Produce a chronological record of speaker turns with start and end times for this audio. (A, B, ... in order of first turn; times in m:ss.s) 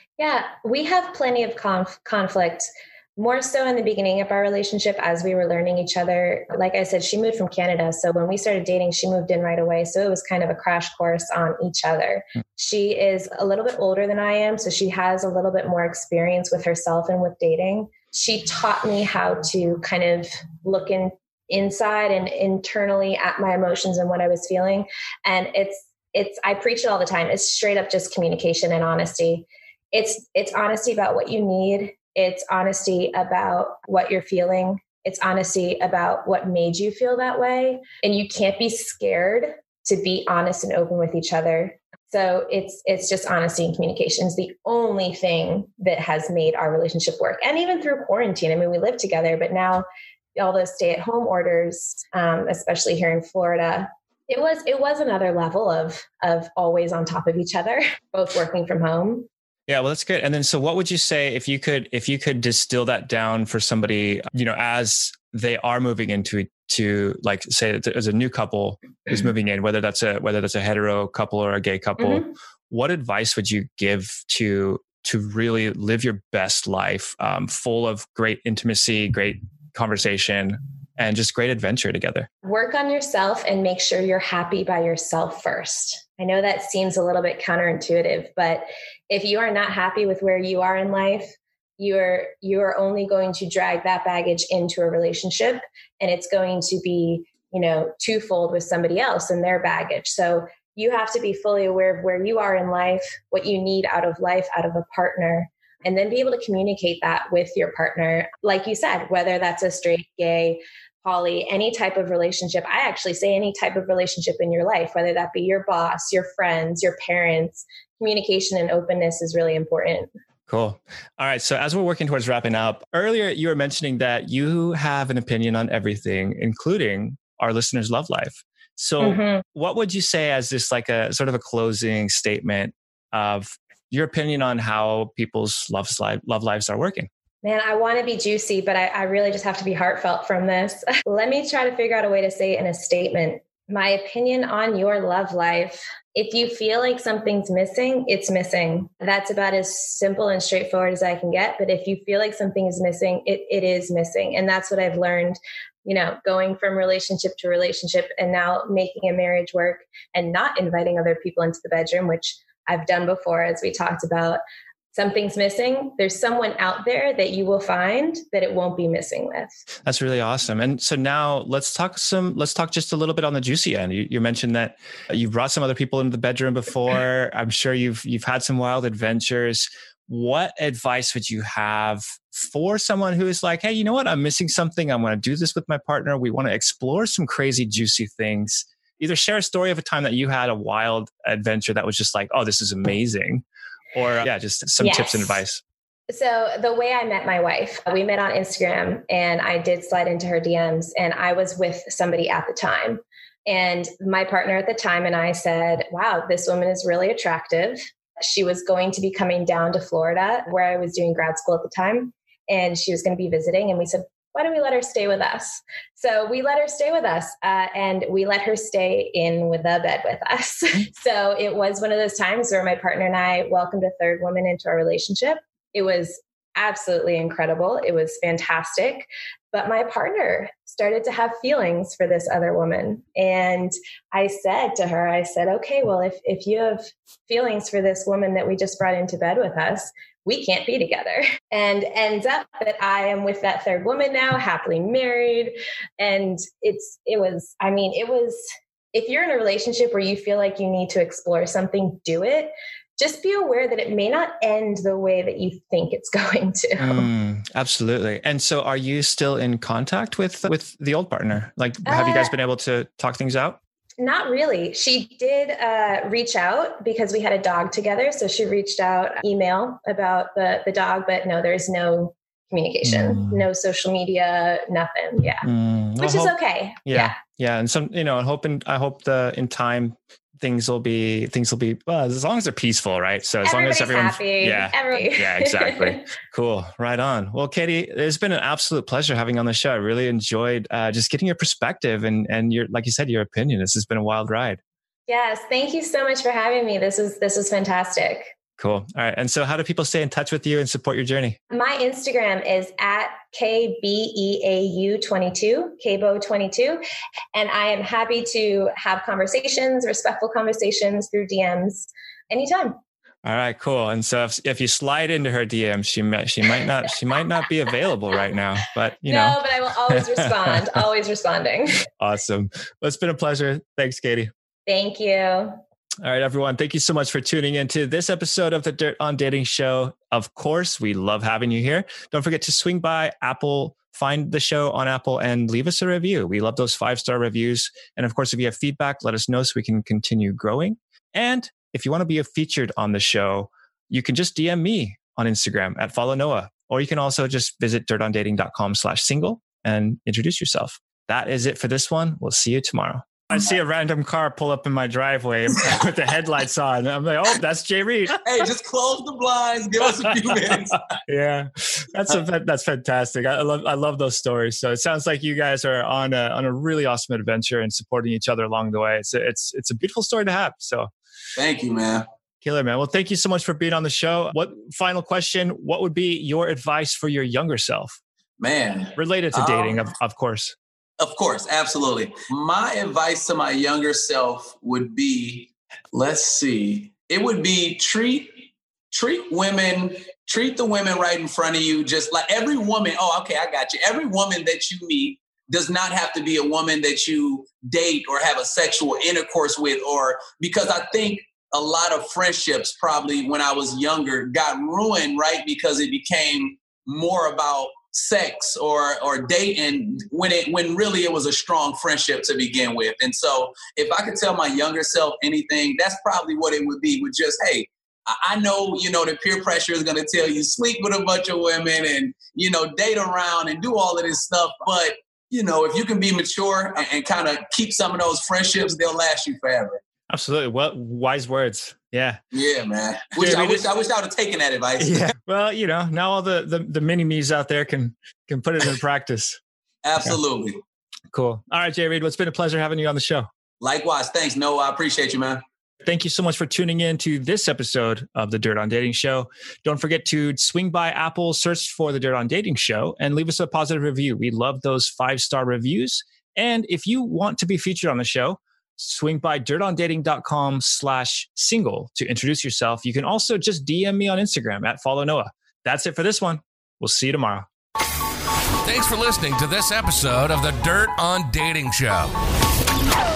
0:00.2-0:49.8 A
0:50.4-0:59.3 A
0:59.7-1:22.3 B
1:12.0-1:12.3 A
1:22.4-2:00.1 A
2:00.5-2:17.1 B
2:09.0-2:09.4 A
2:17.4-2:44.4 A
2:44.9-2:49.5 A
2:49.8-3:15.6 B
3:14.8-3:15.4 A
3:16.1-4:17.1 A
4:16.8-4:23.6 B
4:21.8-4:22.3 A
4:24.0-4:35.5 A
4:32.8-4:33.4 B
4:35.4-4:54.6 B
4:36.0-4:37.1 A
4:43.4-4:46.0 A
4:55.1-4:58.3 A
4:58.6-5:01.4 B
5:01.5-5:06.8 A
5:07.3-5:12.8 A
5:13.2-5:20.6 B
5:19.0-5:21.8 A
5:22.0-5:24.3 B
5:24.6-5:25.5 A
5:26.0-5:58.2 B
5:58.2-6:00.8 C
6:01.0-6:10.9 B
6:11.4-6:12.0 C
6:12.4-6:18.0 B
6:18.4-6:19.8 C
6:19.0-6:20.5 B
6:21.0-7:09.8 C
7:10.1-7:12.2 B
7:12.3-7:15.0 C
7:13.2-7:13.7 B
7:14.8-7:19.4 B
7:19.8-7:20.6 C
7:21.1-7:23.3 B
7:23.6-7:25.4 C
7:25.8-7:47.5 B
7:48.6-7:52.1 D